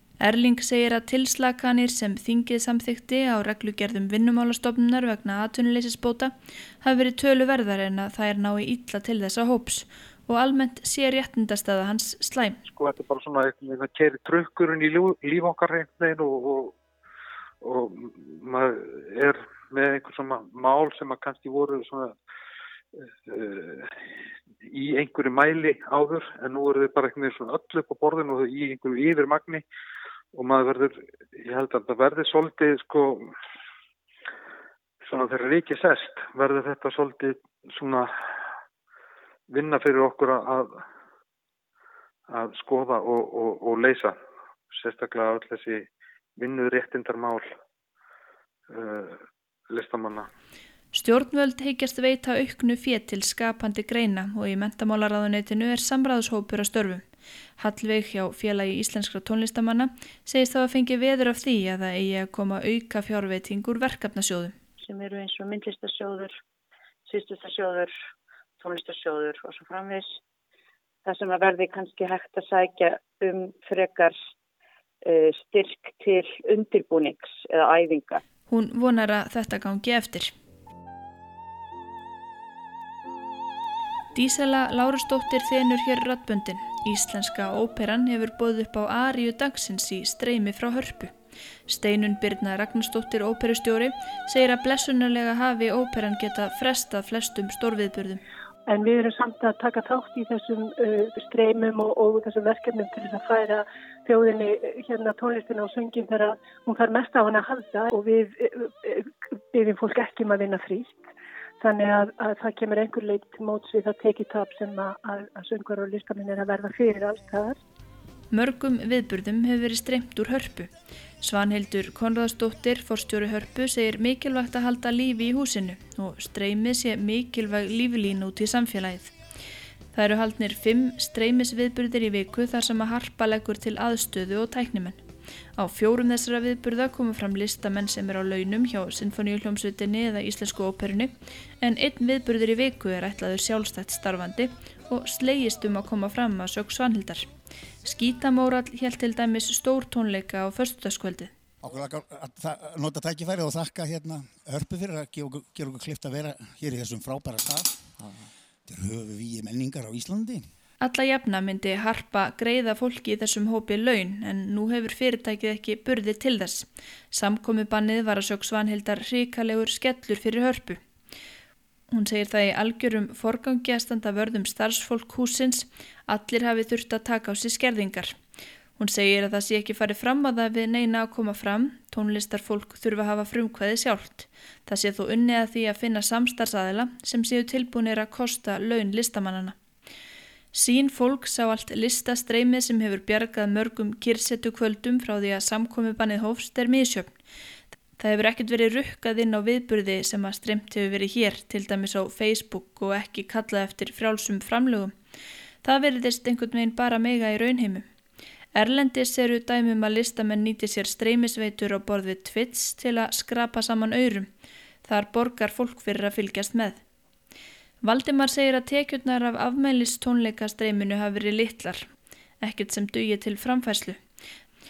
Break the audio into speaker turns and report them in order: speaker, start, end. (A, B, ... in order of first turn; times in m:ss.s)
0:00.2-0:12.6 A
0:12.6-0:16.8 B
0:17.6-0:22.1 B
0:23.3-0:23.9 B
0:24.7-0:29.6 B
0:30.3-0:33.3 B
0:35.0-0:38.1 B
0:39.5-0:40.8 B
0:42.3-0:44.2 B
0:44.7-0:47.5 B
0:48.7-0:50.3 B
0:50.9-0:57.0 A
0:57.6-1:04.5 A
1:04.8-1:06.3 C
1:07.1-1:07.9 C
1:08.6-1:10.2 C
1:11.0-1:14.1 C
1:15.0-1:18.2 C
1:18.5-1:20.3 A
1:24.1-1:31.1 A
1:31.7-1:38.2 A
1:38.7-1:51.0 D
1:51.6-1:57.6 D
1:58.3-2:00.7 A
2:01.2-2:09.1 A
2:09.9-2:15.0 A
2:15.6-2:27.3 A
2:27.8-2:31.3 A
2:31.6-2:40.4 E
2:40.8-2:50.8 A
2:51.9-2:58.2 A
2:58.8-3:09.6 A
3:10.5-3:17.1 A
3:18.0-3:24.9 A
3:25.6-3:27.8 A
3:28.5-3:34.3 A
3:34.8-3:36.8 A
3:37.8-3:41.9 A
3:42.4-3:44.0 A